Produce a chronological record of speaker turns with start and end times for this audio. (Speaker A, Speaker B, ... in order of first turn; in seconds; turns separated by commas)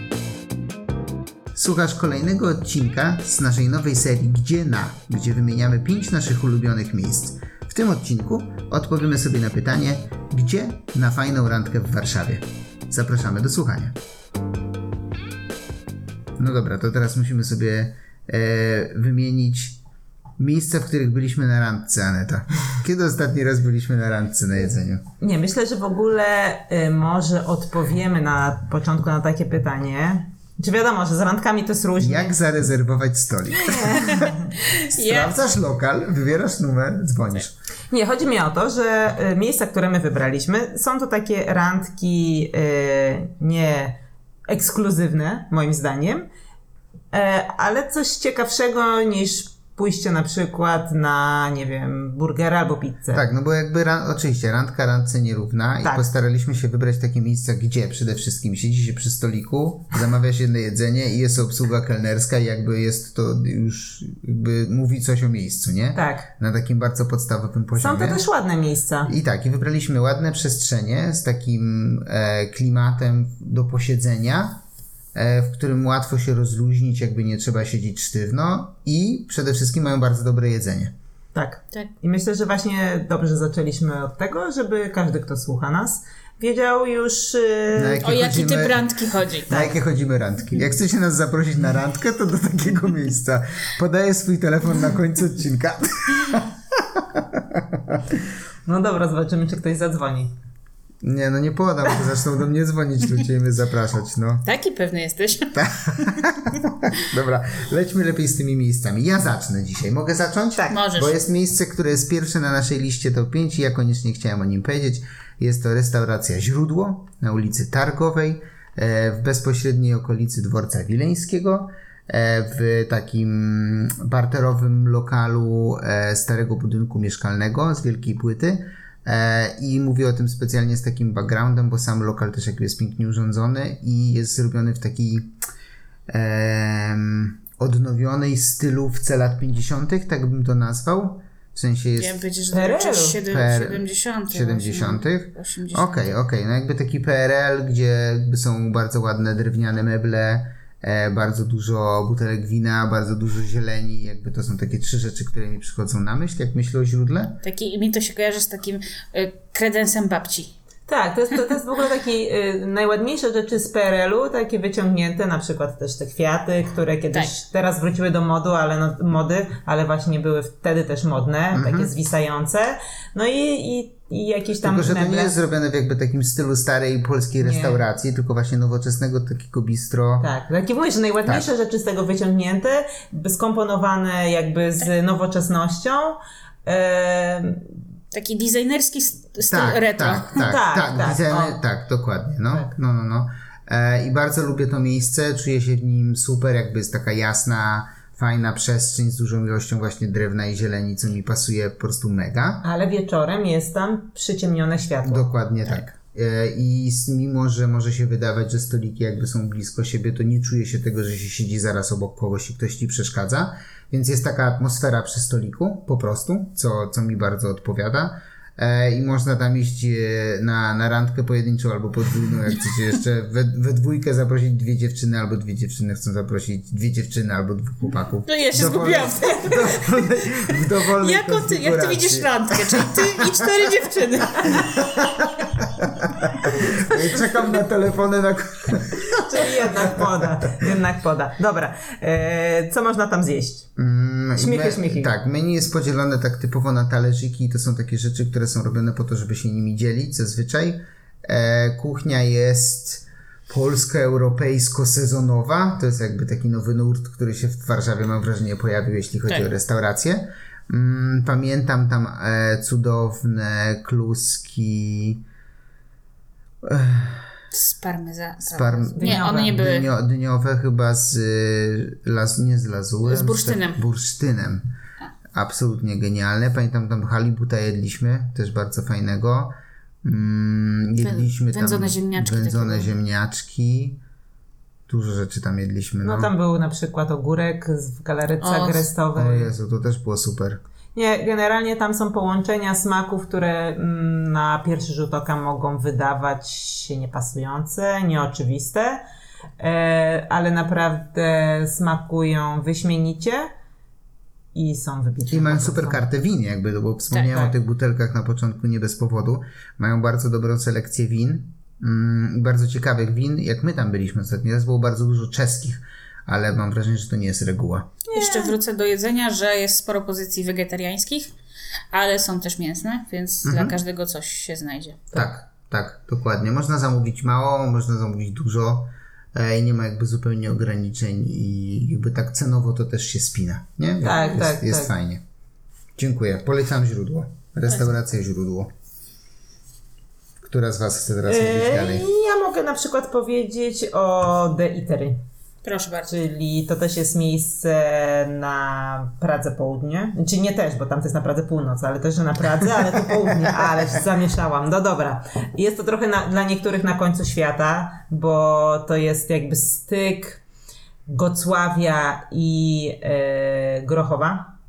Speaker A: 1.6-14.0, Speaker A: 16.4-19.8, Speaker A: 20.4-25.0, Speaker B: 25.2-32.4, Speaker A: 32.0-34.1, Speaker B: 33.6-34.4, Speaker C: 34.0-35.4, Speaker A: 34.9-37.5, Speaker B: 37.9-44.0, Speaker B: 44.5-46.3, Speaker B: 47.1-53.3, Speaker A: 53.1-68.2, Speaker B: 65.9-66.3, Speaker B: 67.8-69.1, Speaker A: 69.1-74.6, Speaker A: 75.1-80.9, Speaker B: 81.3-88.0, Speaker A: 87.8-88.9, Speaker C: 88.0-89.7, Speaker A: 89.5-98.0, Speaker B: 98.7-100.3, Speaker A: 101.0-104.5, Speaker C: 104.5-106.2, Speaker A: 105.5-135.4, Speaker C: 110.7-111.2, Speaker A: 136.1-142.2, Speaker C: 142.0-146.2, Speaker B: 142.5-143.2, Speaker A: 143.3-157.4, Speaker C: 157.4-160.5, Speaker B: 160.9-175.4, Speaker A: 171.5-171.9, Speaker A: 174.6-180.3, Speaker B: 177.4-177.8, Speaker B: 180.2-187.7, Speaker C: 188.1-190.6, Speaker A: 189.5-202.7, Speaker B: 190.4-191.6, Speaker B: 202.6-205.3, Speaker A: 205.0-233.7, Speaker C: 228.3-234.8, Speaker A: 234.5-240.1, Speaker B: 239.2-243.7, Speaker A: 243.8-265.2, Speaker B: 244.4-245.1, Speaker A: 266.6-267.3, Speaker C: 267.5-269.9, Speaker A: 268.5-274.7, Speaker B: 269.0-269.6, Speaker C: 273.1-273.8, Speaker A: 275.3-284.0, Speaker C: 281.0-282.9, Speaker A: 284.9-286.3, Speaker B: 286.0-289.5, Speaker C: 288.4-288.9, Speaker A: 289.2-290.6, Speaker B: 290.9-299.0, Speaker B: 299.6-303.5, Speaker B: 304.5-306.0, Speaker A: 305.3-317.9, Speaker C: 307.1-307.4, Speaker B: 318.1-318.5, Speaker C: 318.1-321.3, Speaker C: 321.9-325.2, Speaker A: 323.4-323.8, Speaker A: 325.1-335.2, Speaker B: 334.0-334.9, Speaker A: 336.0-338.7, Speaker C: 337.7-337.9, Speaker A: 340.4-342.1, Speaker B: 341.3-345.2, Speaker C: 345.6-346.1, Speaker B: 346.1-360.4, Speaker B: 361.1-364.5